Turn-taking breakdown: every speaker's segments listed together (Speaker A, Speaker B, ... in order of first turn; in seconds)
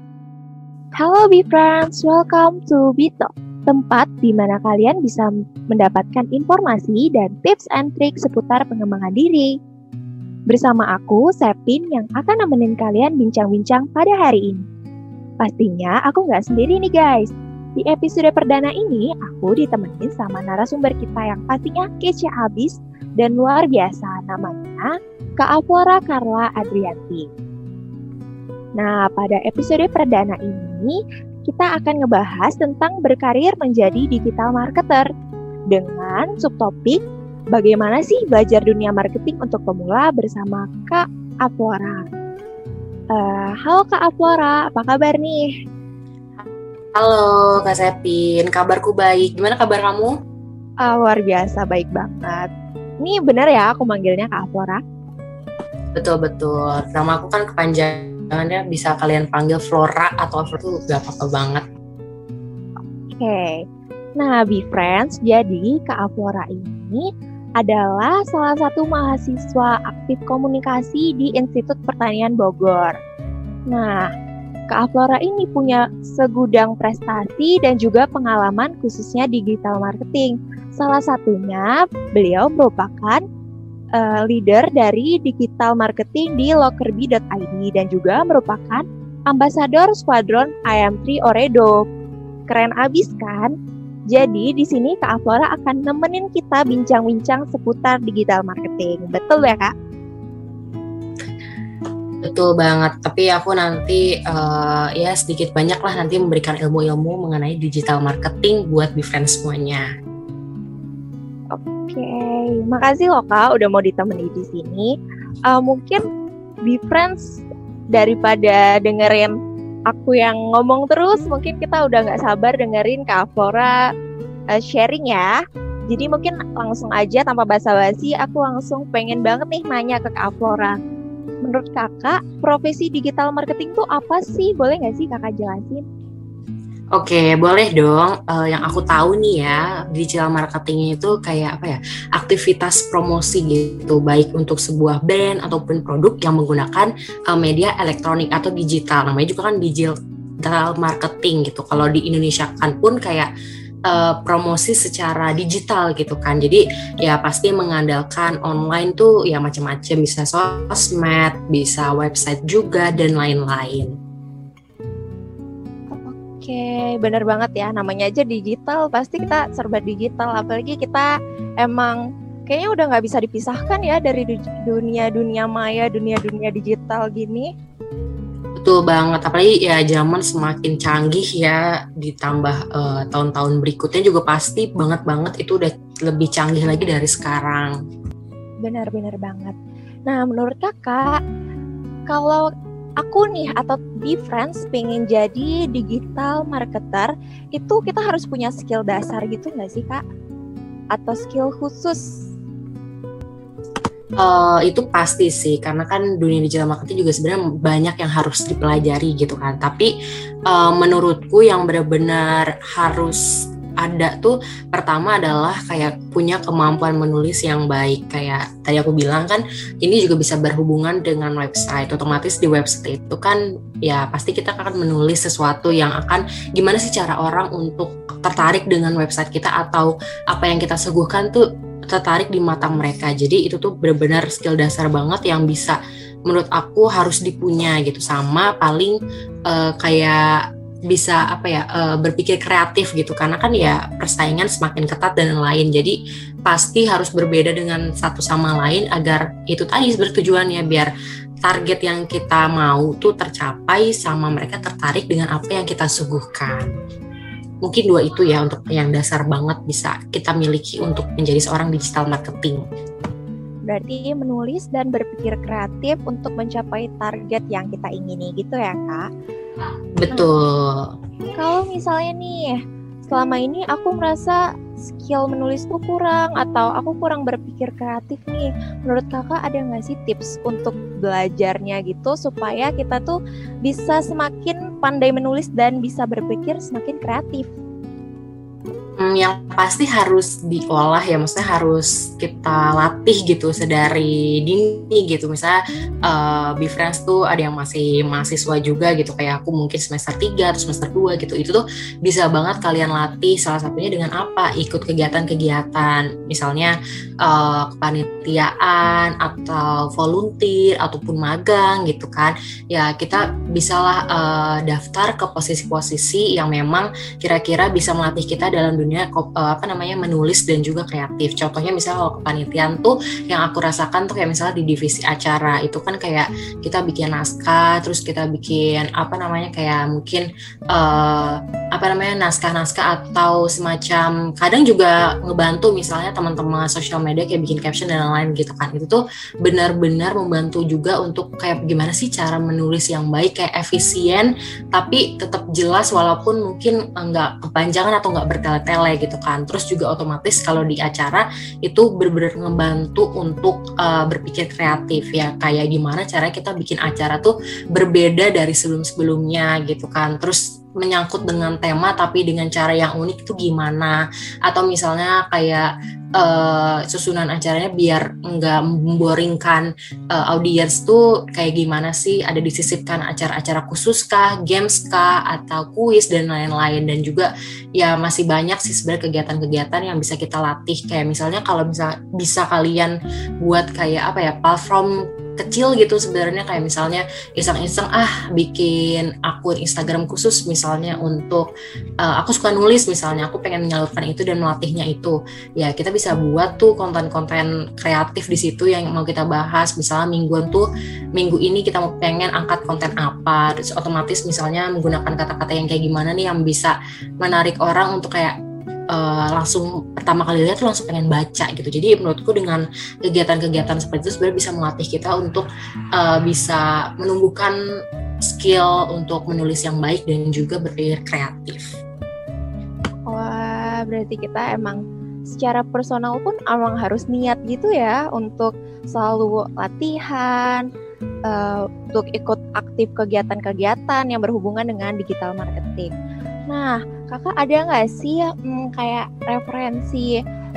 Speaker A: 1.0-9.5, 10.5-14.6, 15.4-27.3, 28.8-35.0, 35.7-37.0, 37.5-42.0, 43.1-45.5, 50.8-52.5, 53.0-54.8, 63.2-63.6, 64.2-67.1, 67.6-72.9, 73.7-74.1, 74.7-83.2, 84.0-91.8, 92.5-93.5, 94.1-99.7, 111.5-114.9, 115.5-116.0, 116.7-117.4, 117.9-119.3, 119.9-123.8, 124.5-125.3, 125.9-130.8, 131.4-135.8, 165.9-171.1, 171.6-172.0, 172.5-177.5, 188.6-189.5, 190.1-191.2, 192.1-192.4, 193.0-200.0, 200.9-202.0, 263.7-269.0, 271.4-272.6, 273.1-287.5, 423.1-424.8, 425.3-430.6, 431.3-435.9, 436.5-440.1
Speaker B: 46.9-50.1, 56.0-61.6, 102.2-109.8, 136.9-153.3, 153.9-163.9, 178.6-187.7, 204.2-209.9, 210.5-213.2, 213.8-238.9, 239.5-250.9, 251.4-256.7, 257.6-262.6, 270.0-270.9, 289.0-391.5, 392.0-408.4, 408.9-417.5, 418.3-421.6